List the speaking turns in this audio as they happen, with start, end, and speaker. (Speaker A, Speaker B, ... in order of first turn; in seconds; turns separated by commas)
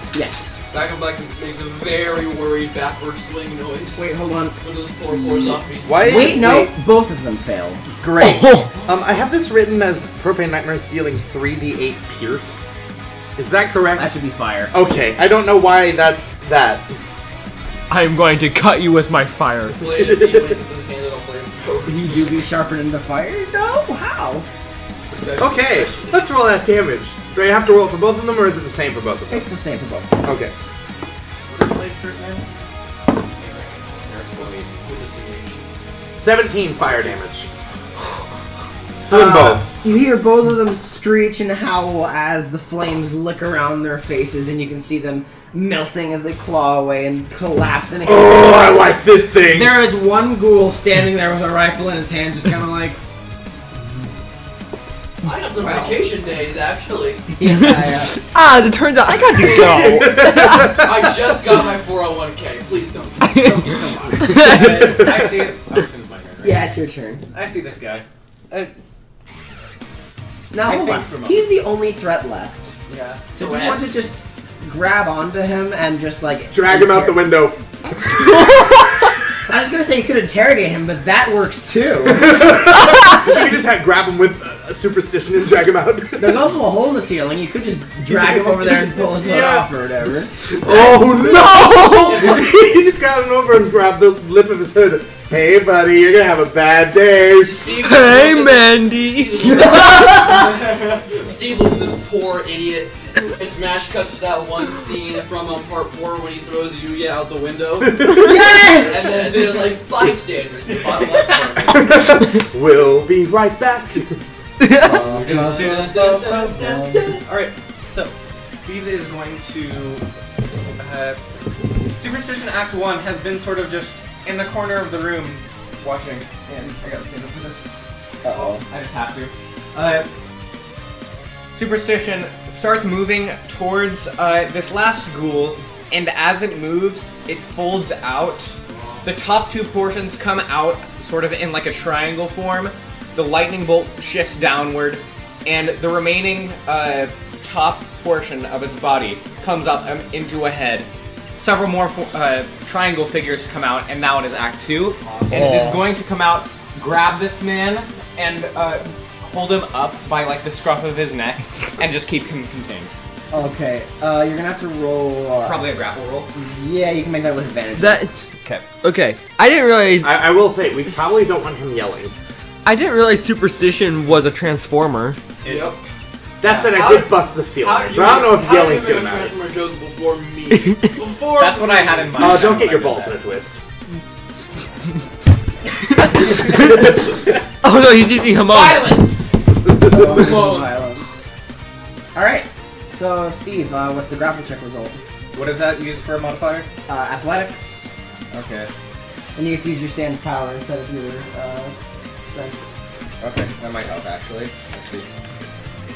Speaker A: 0.1-0.6, Speaker B: 0.7-6.5, Speaker A: 4.0-7.8, Speaker C: 5.8-6.7, Speaker C: 8.0-12.7, Speaker D: 8.2-8.7, Speaker C: 13.4-14.1, Speaker A: 13.9-14.7, Speaker C: 14.7-16.9, Speaker D: 17.9-19.8, Speaker B: 19.8-22.3, Speaker A: 21.8-24.5, Speaker B: 25.1-26.3, Speaker C: 25.4-29.5, Speaker A: 29.3-30.1, Speaker C: 30.2-30.5, Speaker E: 31.5-32.4, Speaker B: 33.4-33.8, Speaker E: 34.0-34.7, Speaker B: 34.3-35.6, Speaker C: 36.2-37.5, Speaker C: 39.1-39.7, Speaker A: 39.1-48.7, Speaker C: 48.0-49.8, Speaker A: 49.5-53.0, Speaker B: 55.2-57.3, Speaker A: 55.5-56.1, Speaker A: 57.3-58.2, Speaker D: 57.4-61.0, Speaker C: 59.2-60.9, Speaker B: 59.4-63.6, Speaker D: 63.3-63.7, Speaker A: 63.4-64.4, Speaker E: 64.2-66.6, Speaker D: 64.2-65.1, Speaker C: 64.4-65.5, Speaker A: 66.4-67.2, Speaker E: 67.3-68.7, Speaker A: 70.5-72.8, Speaker E: 70.6-71.5, Speaker B: 72.9-74.0, Speaker A: 73.3-77.3, Speaker C: 76.5-77.6, Speaker A: 79.5-82.5, Speaker C: 82.0-86.4, Speaker A: 86.2-90.3, Speaker C: 88.1-89.7, Speaker C: 90.4-97.7, Speaker B: 90.7-91.2, Speaker B: 91.8-92.6, Speaker B: 97.2-112.0, Speaker D: 97.7-100.2, Speaker A: 99.6-100.5, Speaker C: 108.0-108.3, Speaker A: 108.1-109.2, Speaker C: 111.7-114.2, Speaker D: 114.6-115.1, Speaker A: 114.8-117.2, Speaker E: 114.8-120.0, Speaker B: 115.1-117.2, Speaker E: 120.8-121.2, Speaker E: 121.9-127.6, Speaker A: 128.2-128.6, Speaker E: 128.2-130.1, Speaker E: 131.5-162.9, Speaker D: 155.3-155.9, Speaker A: 163.3-165.7, Speaker E: 165.4-166.4, Speaker A: 166.3-168.1, Speaker D: 167.8-170.3, Speaker E: 168.4-168.7, Speaker C: 170.0-172.1, Speaker D: 172.6-175.2, Speaker E: 175.4-175.7, Speaker B: 175.4-175.8, Speaker C: 176.4-179.3, Speaker E: 176.4-176.7, Speaker B: 176.7-182.7, Speaker D: 180.5-180.9, Speaker E: 181.3-183.2, Speaker C: 182.1-183.6, Speaker D: 186.0-186.9, Speaker E: 186.2-187.4, Speaker D: 187.6-188.9, Speaker B: 188.4-190.9, Speaker A: 189.8-191.3, Speaker A: 192.1-195.0, Speaker E: 195.3-196.7, Speaker A: 196.9-197.9, Speaker E: 198.3-198.7, Speaker A: 199.3-201.7, Speaker A: 202.3-202.6, Speaker E: 203.2-205.1